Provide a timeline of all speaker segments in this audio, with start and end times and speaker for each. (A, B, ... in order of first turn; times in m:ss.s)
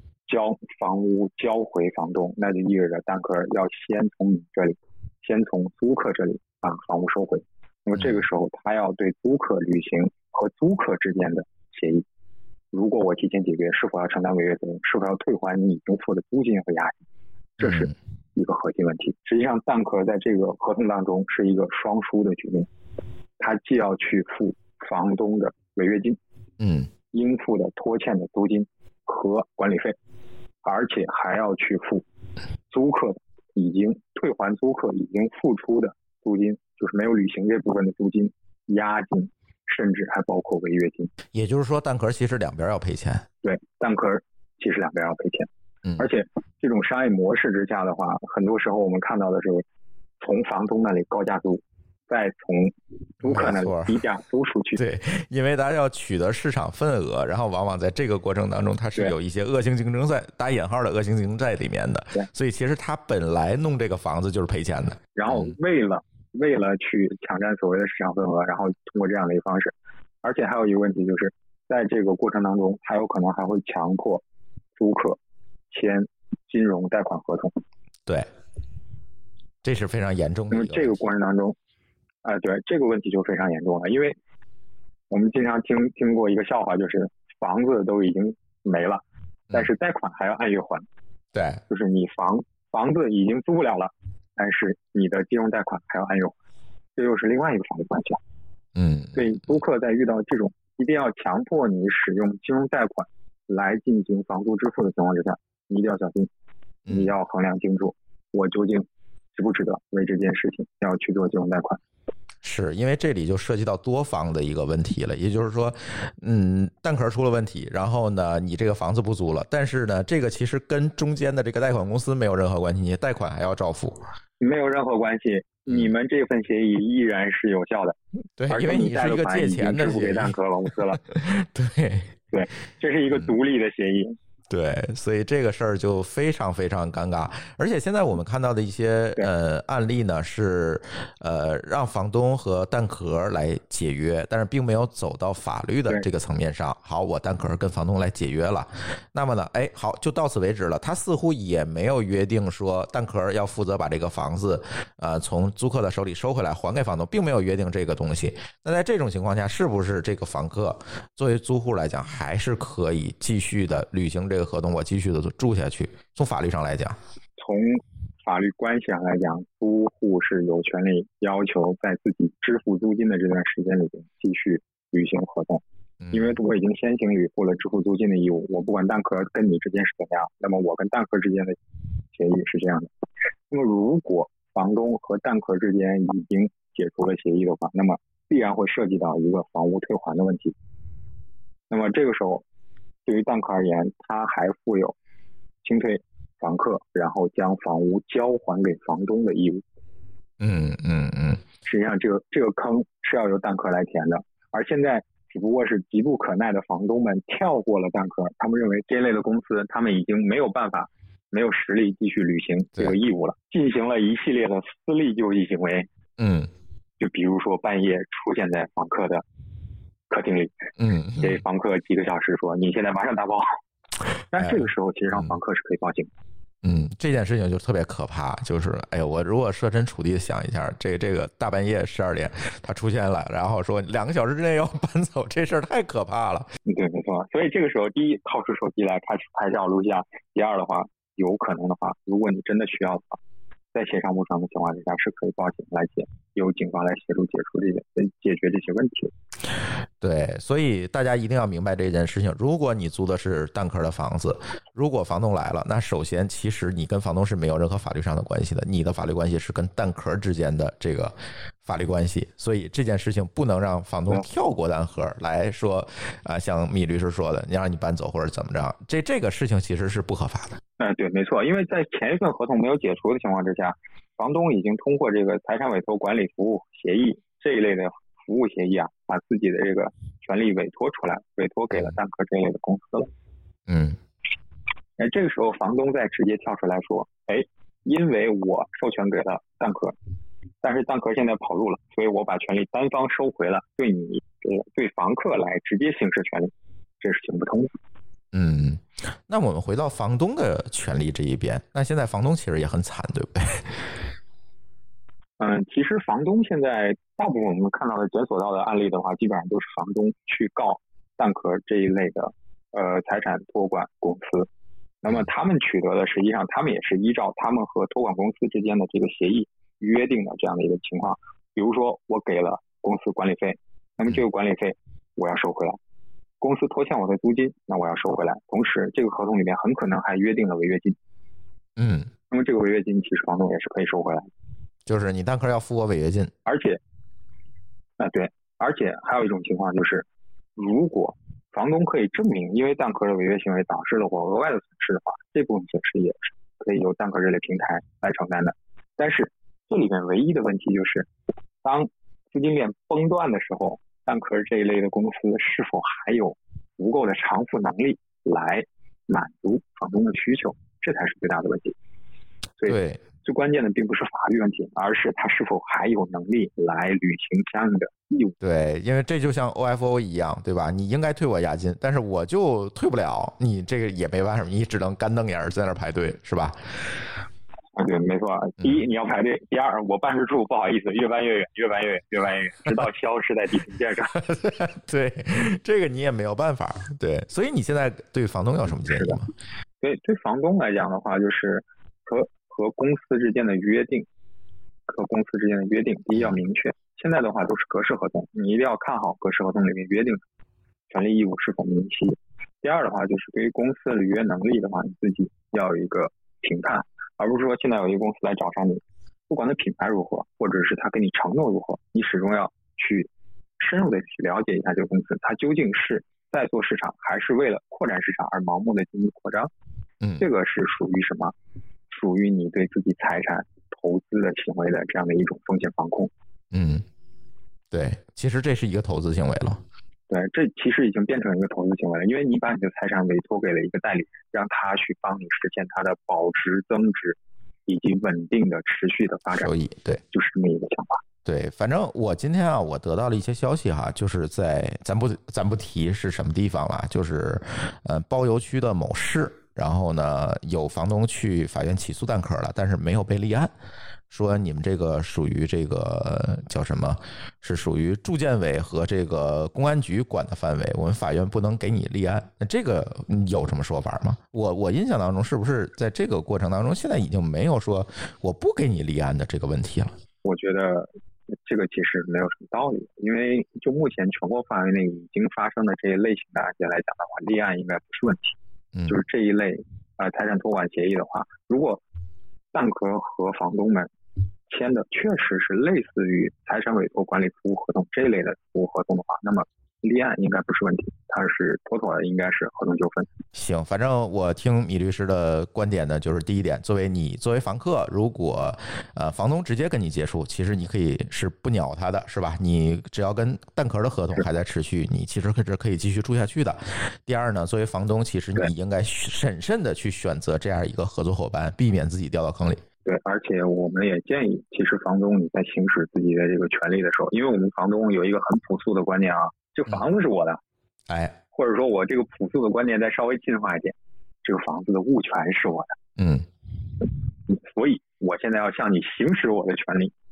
0:00.3-0:12.0 A
0:12.7-0:17.0 A
0:17.6-0:22.7 A
0:17.6-0:17.9 B
0:23.4-0:26.2 A
0:26.6-0:26.9 B
0:27.1-0:30.0 A
0:30.6-0:32.0 A
0:32.7-0:41.1 A
0:41.3-0:43.3 B
0:43.4-0:49.6 A
0:50.2-0:54.8 A
0:53.2-0:54.0 B
0:54.8-1:05.5 B
1:05.2-1:14.2 A
1:14.8-1:15.2 A
1:15.7-1:17.5 A
1:19.6-1:21.0 B
1:20.5-1:21.6 A
1:22.2-1:24.2 A
1:25.1-1:30.8 A
1:31.3-1:31.6 B
1:31.7-1:36.3 A
1:37.0-1:38.2 A
1:38.8-1:39.6 B
1:39.2-1:46.3 A
1:46.9-1:47.1 B
1:46.9-1:51.8 A
1:52.4-2:04.0 B
2:04.4-2:08.0 A
2:05.7-2:05.9 B
2:08.4-2:10.4 B
2:08.5-2:11.0 A
2:10.9-2:12.1 B
2:12.3-2:14.2 A
2:14.5-2:47.0 B
2:47.4-3:01.6 A
2:56.0-2:56.4 B
3:02.1-3:02.9 A
3:03.5-3:10.6 A
3:11.7-3:12.4 A
3:13.1-3:15.0 A
3:15.6-3:19.6 A
3:20.4-3:21.4 B
3:21.6-3:35.9 A
3:36.2-3:36.5 B
3:37.0-3:39.2 A
3:40.1-3:40.7 A
3:40.8-3:41.4 B
3:41.2-3:43.6 A
3:44.3-3:46.1 A
3:44.4-3:45.4 B
3:46.6-3:56.5 B
3:56.7-4:03.2 A
4:03.7-4:09.1 A
4:10.0-4:30.6 B
4:30.8-4:43.1 A
4:43.7-4:44.0 B
4:45.0-4:50.0 A
4:50.6-4:57.7 A
4:58.3-5:03.9 B
5:05.4-5:14.5 A
5:15.0-5:25.8 A
5:26.4-5:31.0 A
5:31.8-5:32.1 B
5:32.3-5:34.3 A
5:34.9-5:36.3 B
5:36.5-5:36.8 A
5:38.0-5:40.0 A
5:40.6-5:51.1 A
5:51.6-6:01.7 A
6:02.6-6:08.4 A
6:02.6-6:03.0 B
6:08.4-6:16.6 B
6:17.8-6:24.2 A
6:24.2-6:29.3 B
6:29.8-6:34.1 A
6:34.9-6:40.2 A
6:40.9-6:53.1 A
6:53.6-6:59.5 A
7:00.0-7:00.3 B
7:00.2-7:01.3 A
7:01.9-7:06.1 A
7:06.5-7:06.8 B
7:07.7-7:09.6 B
7:10.1-7:17.2 A
7:17.7-7:19.5 A
7:19.3-7:20.0 B
7:20.1-7:21.0 A
7:21.2-7:33.5 B
7:34.1-7:49.9 B
7:50.2-7:50.9 A
7:51.4-7:58.4 A
7:58.7-7:59.0 B
7:58.9-8:01.8 A
8:02.5-8:03.9 A
8:04.5-8:13.1 A
8:13.3-8:32.6 B
8:32.8-8:40.4 A
8:40.9-8:41.2 B
8:41.3-8:45.8 A
8:46.0-8:46.3 B
8:47.3-8:49.9 A